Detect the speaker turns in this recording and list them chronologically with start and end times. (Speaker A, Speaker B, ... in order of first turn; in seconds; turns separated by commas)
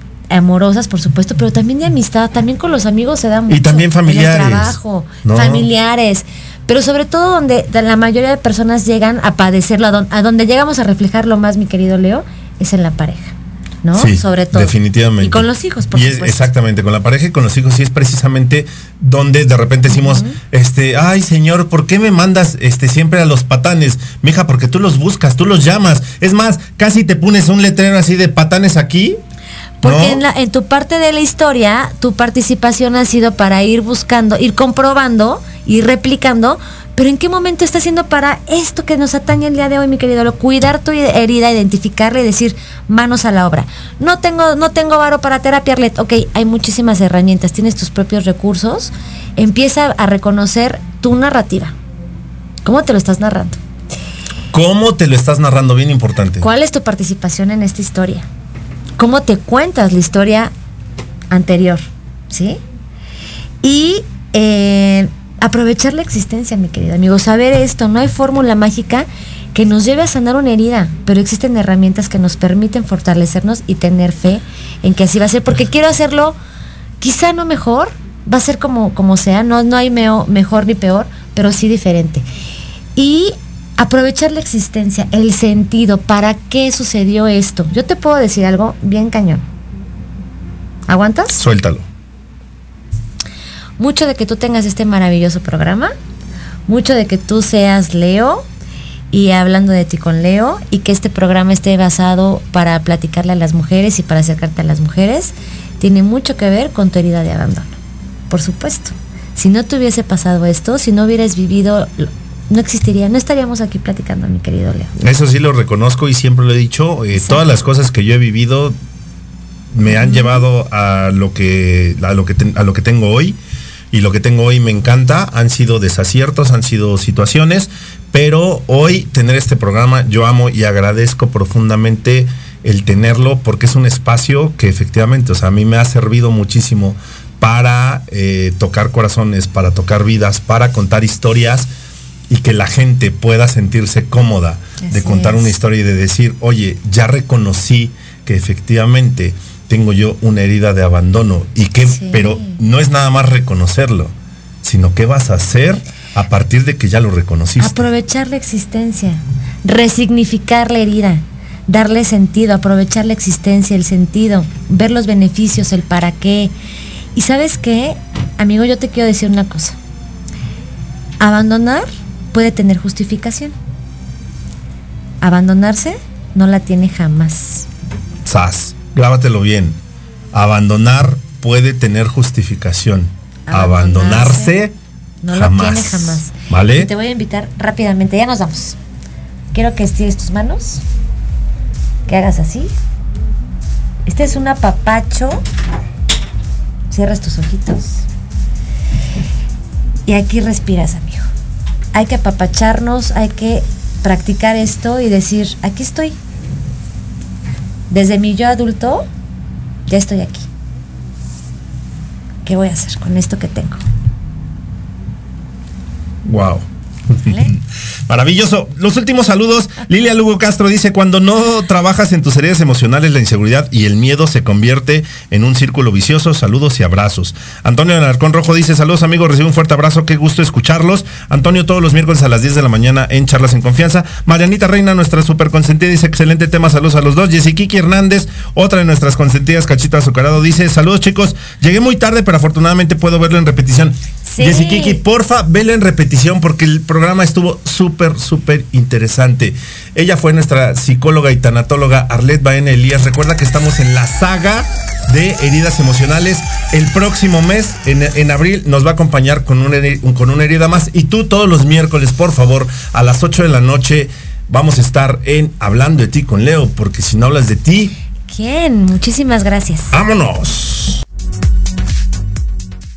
Speaker A: 0.3-16.5, Speaker B: 3.5-5.7, Speaker B: 13.9-29.2, Speaker A: 19.9-20.4, Speaker A: 29.8-51.8, Speaker B: 29.8-30.2, Speaker A: 52.6-53.6, Speaker B: 54.5-56.5, Speaker A: 56.4-58.3, Speaker A: 59.0-60.5, Speaker A: 61.3-62.6, Speaker A: 63.6-76.4, Speaker A: 77.0-82.3, Speaker A: 83.0-89.4, Speaker A: 90.9-91.4, Speaker B: 91.4-91.9, Speaker A: 93.8-95.9, Speaker A: 96.7-98.5, Speaker A: 99.1-107.8, Speaker A: 108.3-115.1, Speaker B: 115.0-118.8, Speaker A: 117.2-117.4, Speaker B: 119.7-123.4, Speaker A: 119.9-120.4, Speaker B: 123.9-141.7, Speaker B: 142.3-157.9, Speaker A: 144.8-145.5, Speaker A: 151.9-152.6, Speaker A: 157.6-166.5, Speaker A: 167.2-169.8, Speaker A: 171.2-173.6, Speaker A: 175.2-177.7, Speaker B: 178.2-179.8, Speaker B: 180.3-184.8, Speaker A: 183.5-184.6, Speaker A: 185.2-188.8, Speaker B: 185.3-186.9, Speaker A: 189.5-190.8, Speaker A: 192.1-192.7, Speaker A: 194.1-195.4, Speaker A: 196.9-198.1, Speaker A: 200.1-201.3, Speaker A: 201.9-206.2, Speaker A: 207.9-209.1, Speaker A: 209.9-210.5, Speaker A: 212.4-213.8, Speaker B: 216.2-267.9, Speaker A: 244.3-245.0, Speaker A: 268.3-269.9, Speaker B: 269.9-271.0